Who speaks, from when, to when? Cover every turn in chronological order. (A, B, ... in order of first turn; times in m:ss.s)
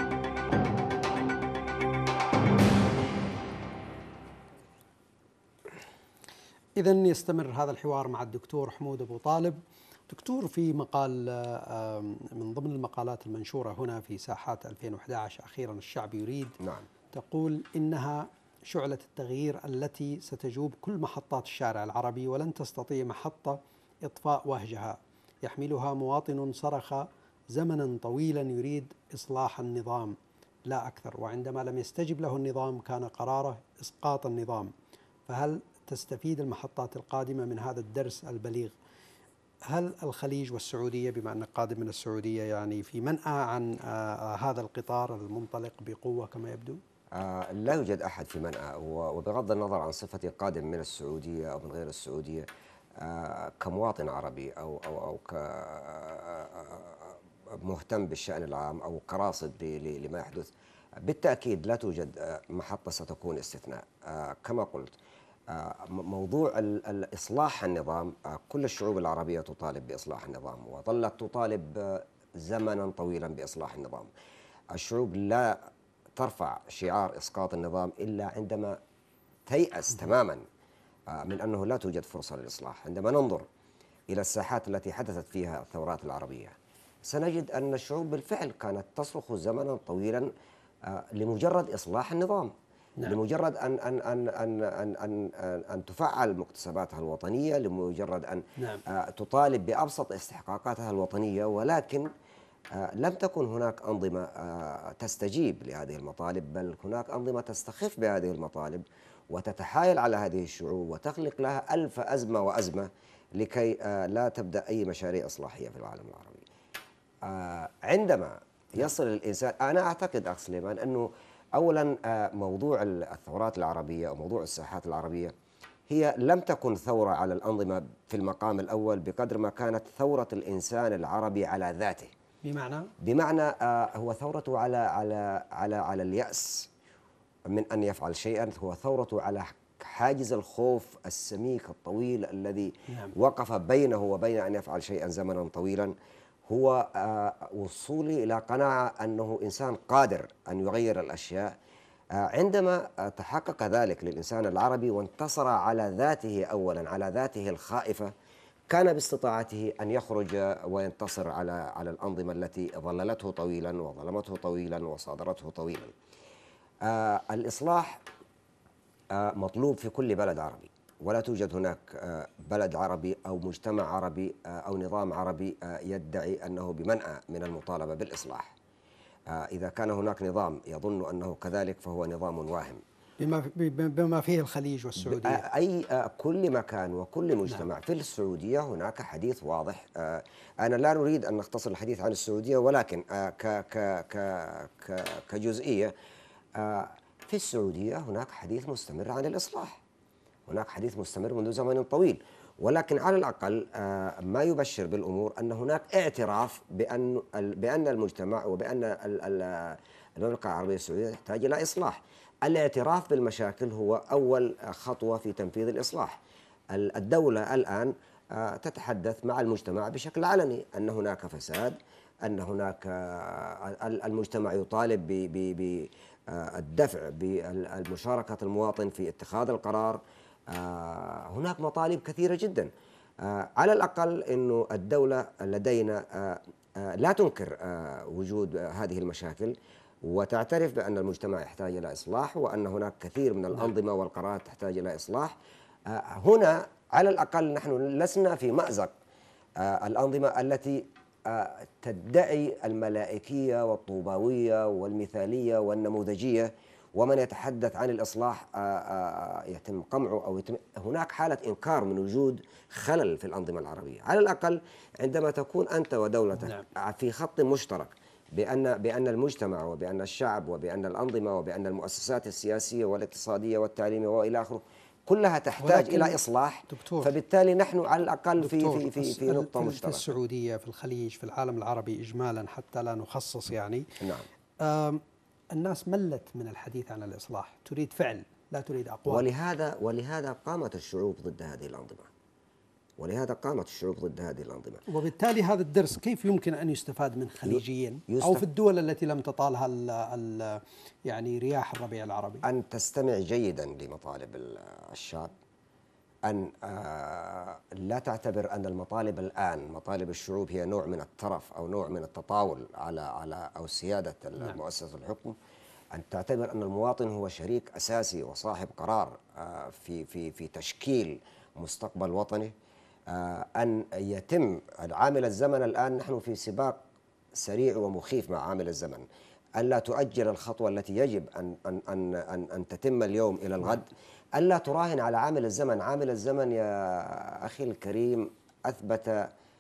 0:06.8-0:16.6 A
0:16.6-0:16.9 B
0:17.1-0:34.7 A
0:35.3-0:38.8 A
0:39.7-0:46.8 A
0:47.2-0:52.5 B
0:53.0-1:05.0 B
1:05.5-1:14.1 B
1:14.7-1:15.6 B
1:16.2-1:18.8 B
1:19.5-1:20.4 B
1:21.1-1:23.5 B
1:24.1-1:30.3 B
1:30.8-1:32.5 B
1:33.0-1:42.1 B
1:38.6-1:38.8 A
1:42.7-1:56.5 B
1:57.2-2:05.3 B
2:05.9-2:12.1 B
2:12.4-2:12.9 A
2:13.0-2:16.7 B
2:17.5-2:25.9 B
2:22.9-2:23.1 A
2:26.5-2:31.5 B
2:32.2-2:38.1 B
2:38.7-2:45.9 B
2:46.8-2:48.0 B
2:49.1-2:58.6 B
2:59.3-3:02.8 B
3:03.2-3:05.4 A
3:05.0-3:15.9 B
3:16.6-3:19.8 B
3:20.5-3:36.2 B
3:36.7-3:52.7 B
3:53.2-4:08.9 B
4:09.6-4:40.0 B
4:26.4-4:26.7 A
4:35.6-4:37.1 A
4:38.4-4:44.0 A
4:44.0-4:44.3 B
4:44.6-4:49.3 A
4:49.1-4:52.1 B
4:53.0-4:54.8 B
4:54.9-5:02.5 A
4:57.4-4:58.4 B
5:02.4-5:05.3 B
5:06.3-5:15.4 B
5:15.9-5:22.5 B
5:23.1-5:26.8 B
5:27.4-5:29.0 B
5:29.6-5:39.3 B